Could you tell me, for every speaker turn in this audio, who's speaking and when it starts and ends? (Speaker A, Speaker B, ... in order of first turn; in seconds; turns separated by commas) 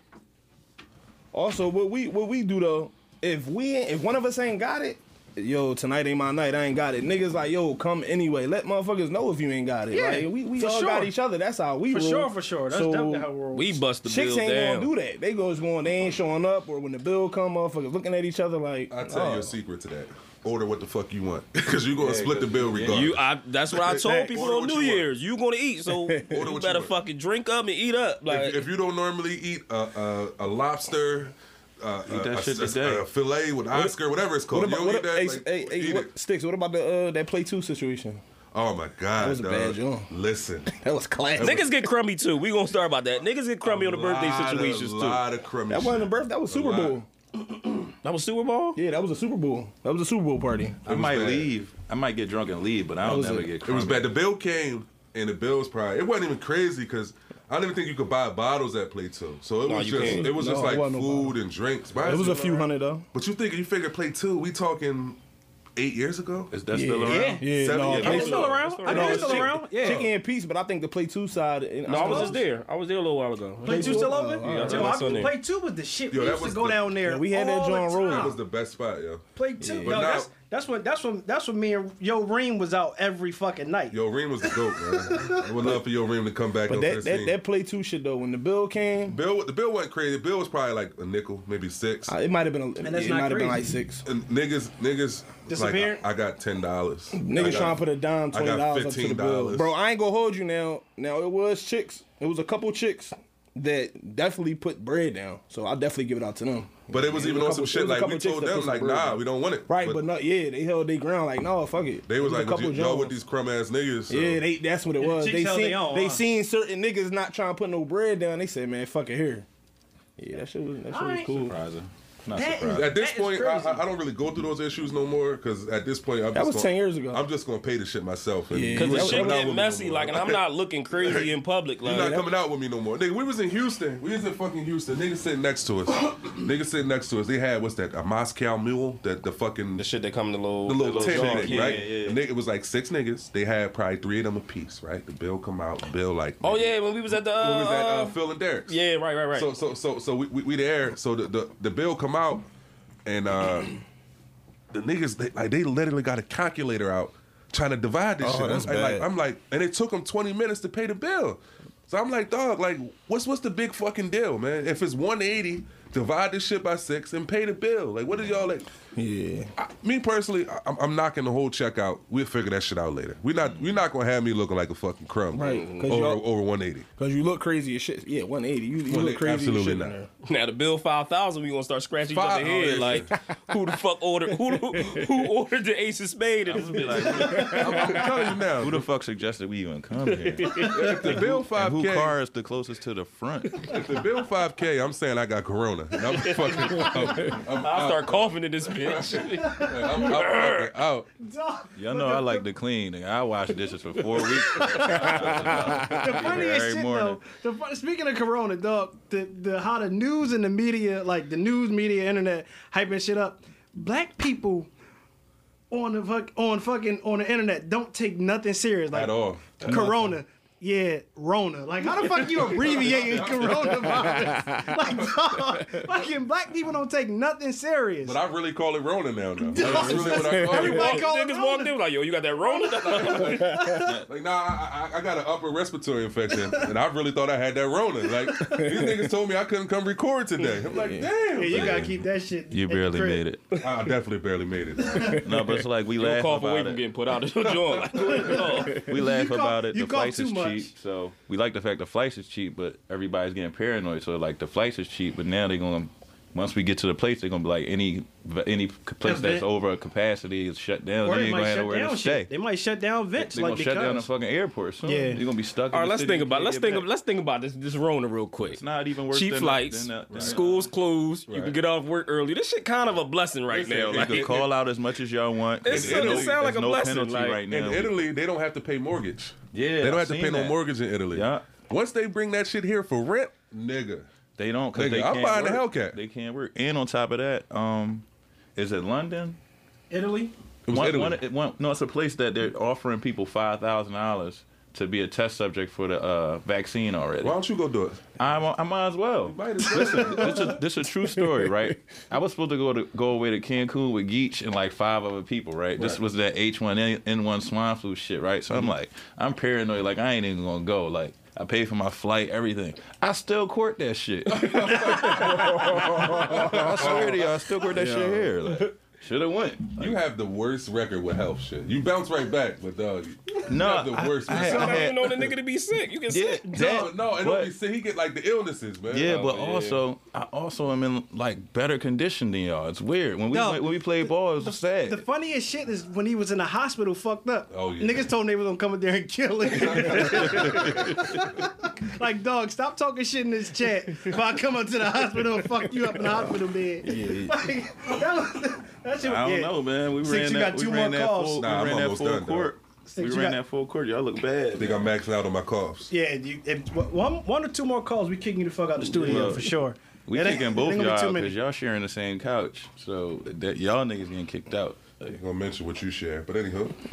Speaker A: 1.3-13.3, Speaker B: 9.9-11.1, Speaker B: 11.9-13.8, Speaker C: 13.5-14.9, Speaker A: 14.0-19.5, Speaker D: 18.9-25.1, Speaker E: 21.9-23.2, Speaker C: 22.9-28.6, Speaker A: 25.9-26.4, Speaker D: 26.3-26.9, Speaker D: 28.2-36.1, Speaker E: 32.0-33.0, Speaker A: 34.5-38.2, Speaker D: 38.5-40.7, Speaker A: 39.1-40.1, Speaker A: 40.7-41.7, Speaker C: 41.4-45.2, Speaker D: 43.6-47.0, Speaker A: 45.7-47.1, Speaker C: 48.0-48.8, Speaker A: 48.7-50.8, Speaker E: 50.8-54.1, Speaker D: 50.9-51.5, Speaker A: 53.0-53.5, Speaker D: 53.6-65.2, Speaker C: 59.6-60.4, Speaker A: 60.0-61.4, Speaker A: 62.0-63.1, Speaker D: 65.8-66.5, Speaker E: 66.5-68.5, Speaker A: 66.7-72.5, Speaker B: 67.0-70.1, Speaker D: 67.5-68.5, Speaker C: 67.9-69.6, Speaker C: 71.8-75.3, Speaker B: 72.0-72.4, Speaker B: 73.6-78.4, Speaker A: 73.6-75.3, Speaker D: 76.1-76.9, Speaker A: 77.0-78.4, Speaker D: 78.0-79.2, Speaker B: 79.3-85.4, Speaker A: 79.6-80.1, Speaker D: 79.8-80.3, Speaker D: 83.9-87.3, Speaker A: 86.7-89.2, Speaker D: 89.1-92.1, Speaker A: 92.1-94.0, Speaker B: 92.8-93.8, Speaker D: 94.0-99.7, Speaker B: 95.5-96.0, Speaker A: 97.1-113.2, Speaker D: 106.9-110.0, Speaker D: 112.1-114.4, Speaker A: 114.1-119.5, Speaker B: 115.0-116.2, Speaker A: 120.2-121.5, Speaker B: 120.9-121.4, Speaker E: 121.4-122.9, Speaker B: 122.3-123.8, Speaker D: 122.7-139.9, Speaker A: 126.3-127.2, Speaker A: 128.5-129.5, Speaker C: 128.7-132.3, Speaker C: 139.8-141.9, Speaker D: 140.6-148.8, Speaker E: 140.8-142.2, Speaker C: 146.4-148.2, Speaker C: 148.7-149.5, Speaker D: 149.3-152.4, Speaker D: 153.1-153.8, Speaker D: 154.7-168.7, Speaker A: 158.2-159.1, Speaker A: 168.9-169.5, Speaker D: 169.6-176.8, Speaker A: 175.3-176.2, Speaker C: 175.4-175.8, Speaker A: 177.0-180.1, Speaker D: 178.8-179.9, Speaker C: 180.2-188.2, Speaker D: 182.1-183.1, Speaker A: 184.5-185.2, Speaker E: 186.4-193.7, Speaker A: 187.2-187.9, Speaker D: 187.4-188.8, Speaker C: 190.2-191.1, Speaker D: 190.5-192.2, Speaker D: 193.6-201.1, Speaker C: 196.1-200.7, Speaker B: 199.4-200.2, Speaker B: 201.2-202.5, Speaker E: 201.8-207.2, Speaker A: 204.9-205.9, Speaker B: 205.9-214.7, Speaker B: 215.7-228.2, Speaker D: 218.9-219.9, Speaker E: 219.6-220.1, Speaker D: 222.2-224.3, Speaker A: 223.7-225.6, Speaker D: 228.0-231.0, Speaker B: 229.4-231.7, Speaker C: 229.6-233.7, Speaker A: 230.1-230.9, Speaker B: 232.5-233.8, Speaker D: 232.6-241.9, Speaker A: 233.5-233.8, Speaker E: 233.8-234.1, Speaker A: 238.4-239.1, Speaker A: 240.5-241.1, Speaker B: 241.3-243.2, Speaker E: 241.5-242.0, Speaker E: 242.5-243.6, Speaker D: 243.6-245.3, Speaker A: 245.1-245.4, Speaker E: 245.1-246.8, Speaker C: 245.9-248.9, Speaker D: 247.3-248.6, Speaker B: 247.9-250.7, Speaker E: 248.7-262.3, Speaker B: 259.0-259.4, Speaker B: 261.0-264.1, Speaker E: 263.1-266.9, Speaker B: 264.8-265.2, Speaker C: 265.7-274.4, Speaker E: 268.4-270.7, Speaker D: 270.1-270.4, Speaker D: 271.3-271.6, Speaker E: 273.5-278.0, Speaker D: 273.9-274.5, Speaker C: 275.6-277.4, Speaker D: 275.6-276.4, Speaker D: 277.4-284.1, Speaker E: 279.5-280.6, Speaker E: 281.1-281.5, Speaker E: 284.3-288.0, Speaker D: 284.7-286.0, Speaker E: 288.6-289.4, Speaker B: 289.9-290.3, Speaker D: 290.7-291.2, Speaker E: 290.7-297.4, Speaker D: 297.2-298.1, Speaker E: 298.2-320.0, Speaker D: 299.2-300.6, Speaker D: 314.3-317.4, Speaker A: 315.1-317.1, Speaker A: 317.8-318.3, Speaker D: 319.8-324.9, Speaker E: 323.4-325.3, Speaker C: 324.3-326.4, Speaker E: 326.1-327.5, Speaker B: 326.4-326.9, Speaker D: 326.5-329.3, Speaker E: 328.9-335.0, Speaker C: 329.0-329.8, Speaker B: 333.3-351.4, Speaker D: 337.5-338.1, Speaker D: 339.5-341.0, Speaker E: 340.0-341.3, Speaker E: 346.8-347.4, Speaker E: 349.0-354.9, Speaker D: 351.4-352.5, Speaker B: 352.9-353.4, Speaker D: 354.6-355.9, Speaker B: 355.9-361.4, Speaker E: 358.8-359.5, Speaker E: 360.1-365.0, Speaker D: 365.0-366.8